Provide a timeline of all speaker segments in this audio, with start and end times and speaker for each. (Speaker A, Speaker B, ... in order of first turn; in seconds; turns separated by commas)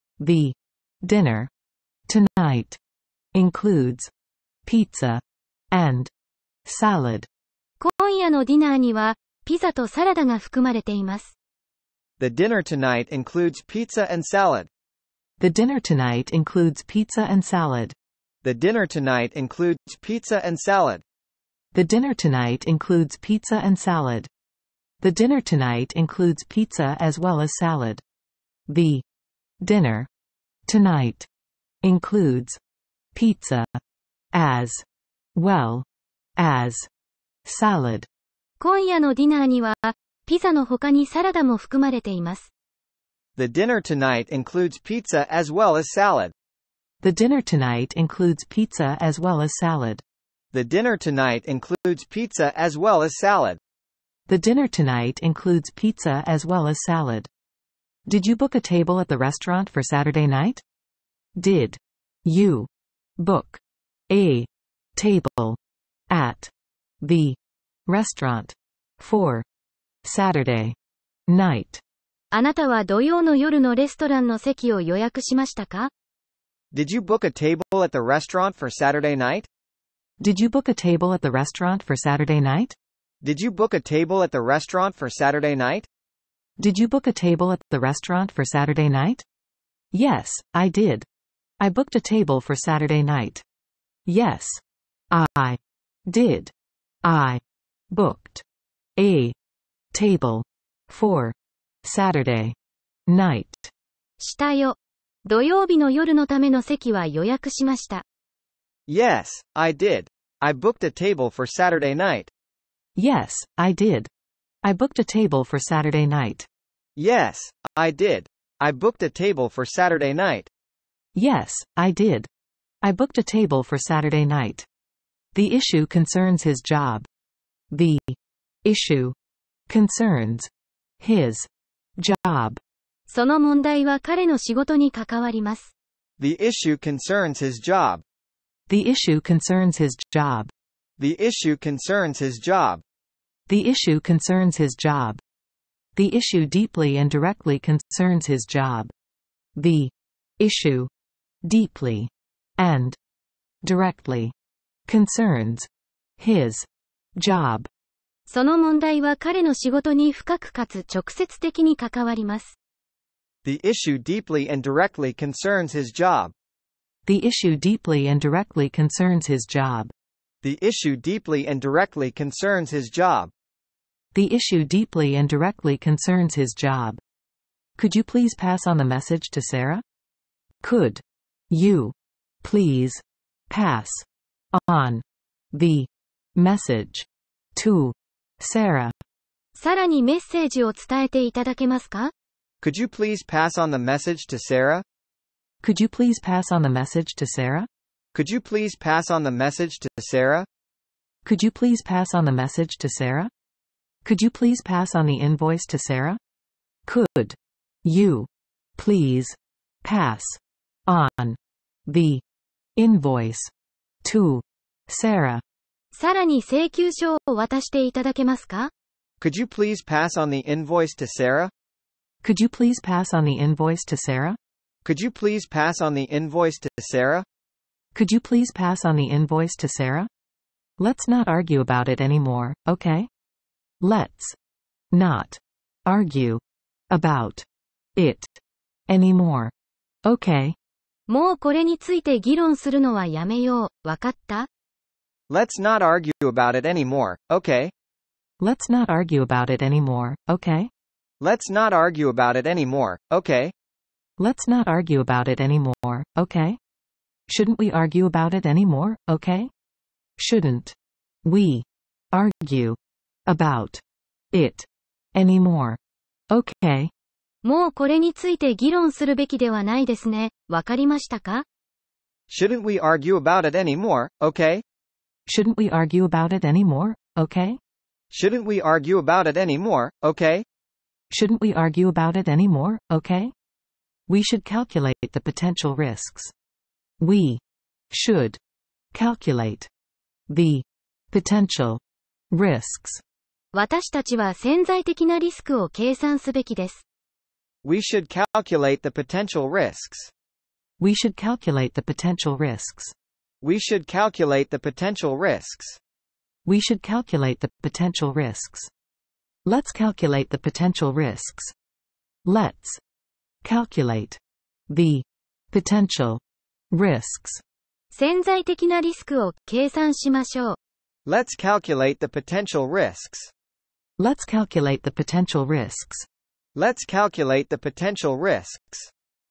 Speaker A: 0.2-1.5, Speaker A: 2.1-2.8, Speaker A: 3.3-4.1, Speaker A: 4.7-6.1, Speaker A: 6.7-7.3, Speaker B: 7.8-11.3, Speaker C: 12.2-14.7, Speaker A: 15.4-17.9, Speaker C: 18.4-21.0, Speaker A: 21.7-24.3, Speaker A: 25.0-28.0, Speaker A: 28.7-29.0, Speaker A: 29.6-30.1, Speaker A: 30.6-31.3, Speaker A: 31.8-32.6, Speaker A: 33.1-33.8, Speaker A: 34.3-35.9, Speaker A: 36.4-36.9, Speaker A: 37.4-38.1, Speaker B: 38.6-42.5, Speaker C: 43.4-46.3, Speaker A: 47.0-50.0, Speaker C: 50.5-53.6, Speaker A: 54.3-57.3, Speaker A: 58.1-60.6, Speaker A: 61.4-65.6, Speaker A: 66.1-69.4, Speaker A: 70.0-70.8, Speaker A: 71.3-71.8, Speaker B: 72.3-75.9, Speaker C: 76.7-79.5, Speaker A: 80.2-82.8, Speaker C: 83.2-85.9, Speaker A: 86.6-89.2, Speaker A: 89.9-91.0, Speaker A: 91.6-93.4, Speaker A: 94.0-98.4, Speaker A: 99.0-99.3, Speaker A: 99.9-102.5, Speaker A: 103.1-103.7, Speaker B: 104.2-108.0, Speaker C: 108.9-112.3, Speaker A: 113.0-114.1, Speaker A: 114.6-116.5, Speaker C: 117.0-120.5, Speaker A: 121.1-122.3, Speaker A: 122.8-124.7, Speaker A: 125.3-127.0, Speaker A: 127.7-129.2, Speaker A: 129.7-132.6, Speaker B: 133.1-135.7, Speaker C: 136.2-138.0, Speaker A: 138.7-140.5, Speaker C: 141.0-142.8, Speaker A: 143.5-145.2, Speaker A: 145.9-148.9, Speaker A: 149.6-150.9, Speaker A: 151.4-153.0, Speaker A: 153.6-154.3, Speaker A: 154.9-157.7, Speaker B: 158.3-162.5, Speaker C: 163.4-166.3, Speaker A: 167.1-169.9, Speaker C: 170.4-173.3, Speaker A: 174.1-177.0, Speaker A: 177.8-179.8, Speaker A: 180.6-188.9, Speaker B: 189.6-192.1, Speaker C: 192.6-194.8, Speaker A: 195.6-197.7, Speaker C: 198.1-200.5, Speaker A: 201.2-203.3, Speaker A: 204.0-206.2, Speaker A: 206.8-212.2, Speaker A: 212.8-213.5, Speaker A: 214.0-215.4, Speaker B: 215.9-218.7, Speaker C: 219.2-221.5, Speaker A: 222.2-224.4, Speaker C: 224.8-227.2, Speaker A: 227.9-230.1, Speaker A: 230.8-233.1, Speaker A: 233.8-234.4, Speaker A: 234.9-239.5, Speaker A: 240.0-240.5, Speaker B: 241.1-244.5, Speaker C: 245.3-247.7, Speaker A: 248.4-250.7, Speaker C: 251.2-253.5, Speaker A: 254.2-256.6, Speaker A: 257.3-259.5, Speaker A: 260.2-265.8, Speaker A: 266.3-266.9, Speaker B: 267.4-271.4, Speaker C: 272.3-274.6, Speaker A: 275.3-277.6, Speaker C: 278.1-280.4, Speaker A: 281.1-283.3, Speaker A: 284.1-286.3, Speaker A: 287.0-288.4, Speaker A: 288.9-289.7, Speaker A: 290.3-293.0, Speaker B: 293.5-296.8, Speaker C: 297.6-300.1, Speaker A: 300.8-302.9, Speaker C: 303.4-305.8, Speaker A: 306.4-308.7, Speaker A: 309.4-311.5, Speaker A: 312.2-312.8, Speaker A: 313.4-314.2, Speaker A: 314.7-316.2, Speaker A: 316.7-317.4, Speaker B: 317.9-320.6, Speaker C: 321.1-323.3, Speaker A: 324.0-326.1, Speaker C: 326.5-328.9